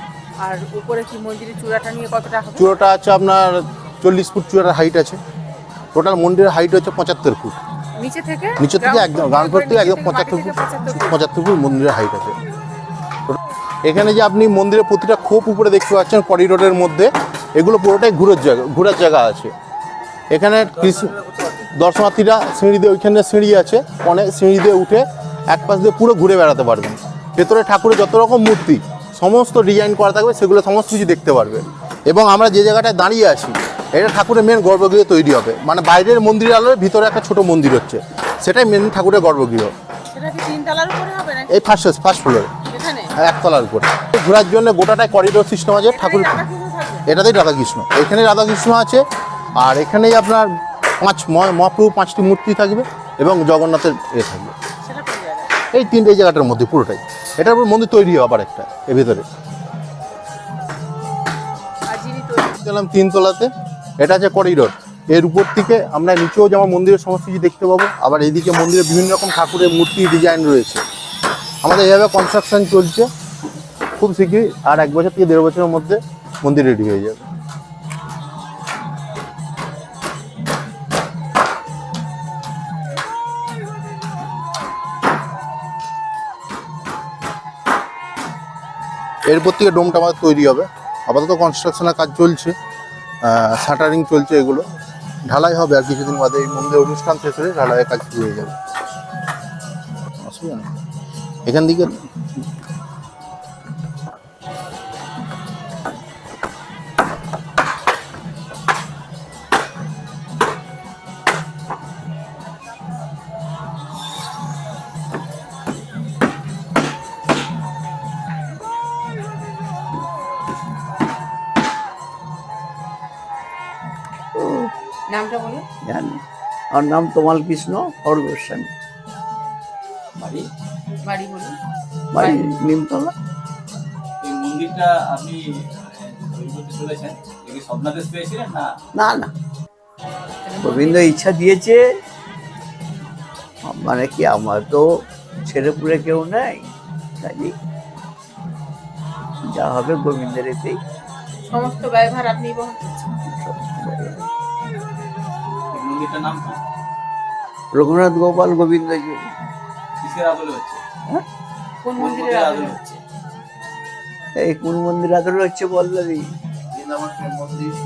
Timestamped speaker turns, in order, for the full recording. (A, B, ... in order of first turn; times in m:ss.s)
0:00.4-0:02.6 A
0:02.6-0:05.2 B
0:05.9-0:07.6 B
0:08.0-0:11.1 A
0:08.6-0:12.4 B
0:13.2-0:19.5 B
0:20.3-0:21.2 B
0:21.8-0:39.7 B
0:40.1-0:41.5 A
0:41.5-0:42.5 B
0:42.7-0:43.1 A
0:43.2-0:46.4 B
0:46.0-0:47.0 A
0:47.0-0:49.0 B
0:49.6-0:54.5 B
0:54.8-0:55.6 A
0:55.7-0:59.2 B
1:01.9-1:02.6 A
1:02.6-1:10.8 B
1:11.6-1:13.1 B
1:14.0-1:17.2 B
1:29.2-1:32.5 B
1:33.2-1:34.6 B
1:35.2-1:38.5 B
1:40.2-1:40.7 B
1:41.4-1:42.0 B
2:04.3-2:04.7 C
2:05.8-2:06.2 C
2:06.7-2:08.7 C
2:10.2-2:10.5 D
2:12.1-2:13.1 C
2:14.2-2:18.7 D
2:19.0-2:19.3 C
2:20.5-2:21.0 A
2:20.6-2:21.9 C
2:23.6-2:24.9 C
2:25.4-2:26.7 C
2:27.2-2:27.5 C
2:29.4-2:30.8 C
2:31.5-2:33.1 A
2:33.3-2:34.3 C
2:35.7-2:36.6 D
2:37.7-2:39.3 C
2:40.0-2:40.8 D
2:41.9-2:42.8 A
2:42.0-2:43.0 D
2:44.4-2:46.3 C
2:47.0-2:47.6 D